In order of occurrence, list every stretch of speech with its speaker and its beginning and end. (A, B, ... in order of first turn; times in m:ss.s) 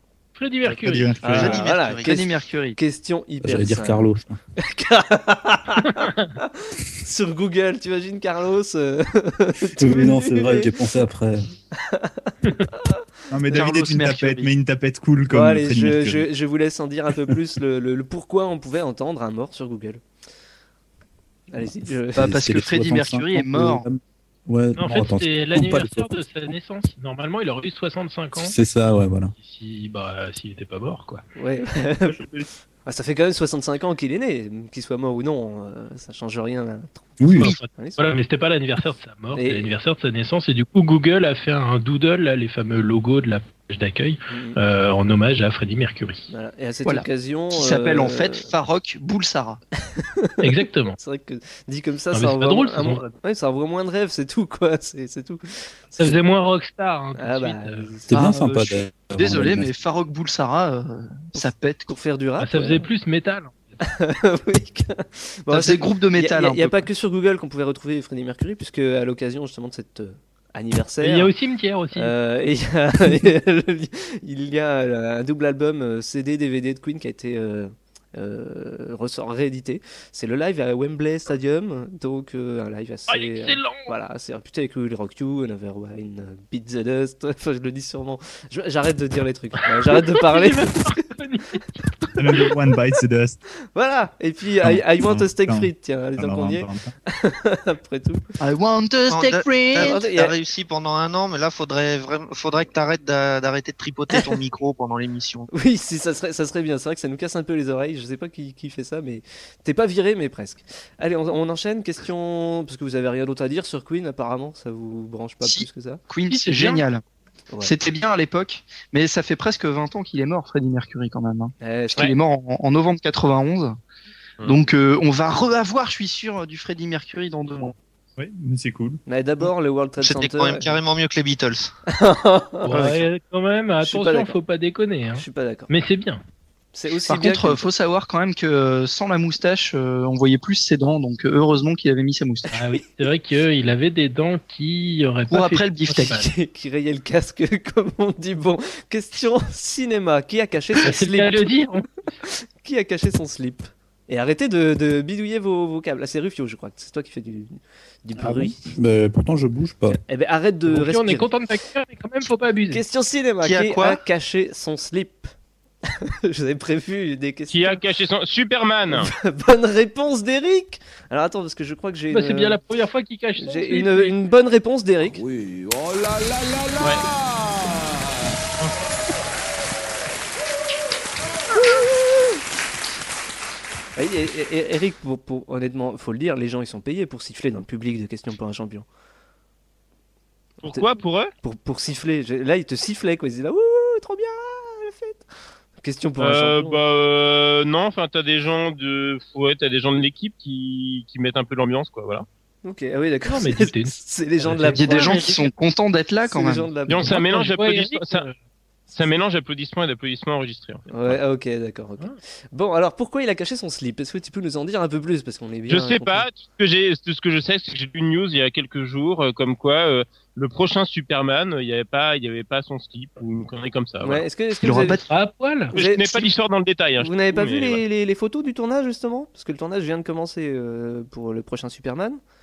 0:00.4-0:01.4 A
0:00.7-0:01.6 B
0:01.2-0:10.8 C
0:01.2-0:02.2 D
0:02.0-0:02.8 E
0:03.4-0:04.4 F
0:06.0-0:06.3 A
0:09.8-0:11.5 F
0:11.8-0:13.7 C
0:13.3-0:16.3 B
0:13.5-0:14.5 E
0:15.3-0:20.0 C
0:21.5-0:22.3 C
0:22.2-0:23.8 E
0:22.2-0:26.2 F
0:24.8-0:28.6 A
0:28.4-0:29.3 F
0:29.4-0:31.2 A
0:31.4-0:32.2 C
0:32.9-0:38.0 C
0:37.2-0:37.5 F
0:37.4-0:46.3 A
0:39.4-0:39.7 C
0:44.3-0:44.6 C
0:46.3-0:48.5 C
0:46.8-0:49.6 E
0:49.8-0:56.2 C
0:50.4-0:51.0 A
0:52.1-0:53.0 A
0:56.0-0:58.0 A
0:57.2-0:58.4 C
0:58.1-0:59.7 F
0:58.2-1:01.9 E
1:01.3-1:02.9 C
1:02.4-1:03.7 A
1:03.8-1:11.3 C
1:05.5-1:06.8 E
1:11.0-1:12.1 A
1:11.9-1:31.0 C
1:23.1-1:23.9 A
1:29.7-1:31.8 A
1:32.2-1:33.4 B
1:33.8-1:38.3 C
1:34.6-1:36.9 B
1:38.4-1:40.0 E
1:39.1-1:45.5 D
1:39.8-1:40.3 C
1:45.5-1:56.0 C
1:55.4-1:57.0 E
1:56.3-1:56.8 A
1:57.6-2:03.8 E
2:01.6-2:02.1 C
2:04.4-2:07.8 E
2:08.2-2:09.0 B
2:09.1-2:10.8 C
2:10.0-2:11.7 D
2:11.9-2:12.9 C
2:12.6-2:16.2 A
2:13.8-2:14.3 C
2:15.2-2:15.7 C
2:16.7-2:17.7 C
2:17.1-2:22.6 E
2:22.5-2:26.3 A
2:25.3-2:26.2 E
2:26.1-2:31.5 C
2:30.8-2:32.2 A
2:32.3-2:38.7 C
2:38.2-2:40.0 F
2:40.1-2:41.3 C
2:40.7-2:42.8 A
2:42.7-2:45.3 C
2:43.4-2:44.0 D
2:45.9-2:47.8 C
2:47.5-2:49.1 G
2:48.9-2:52.6 C
2:52.1-2:54.3 A
2:53.4-2:55.2 C
2:55.0-2:58.4 H
3:04.0-3:08.9 C
3:10.6-3:11.3 G
3:11.4-3:15.3 C
3:15.8-3:16.8 C
3:16.2-3:22.3 G
3:22.6-3:25.4 C
3:23.3-3:25.4 A
3:24.8-3:26.7 E
3:26.2-3:27.2 C
3:26.9-3:28.2 G
3:27.0-3:28.4 A
3:28.9-3:30.9 G
3:30.9-3:36.3 C
3:35.7-3:44.3 G
3:44.0-3:45.0 C
3:44.6-3:45.0 E
3:45.0-3:45.7 A
3:45.7-3:46.3 C
3:45.7-3:47.8 G
3:47.0-3:52.2 C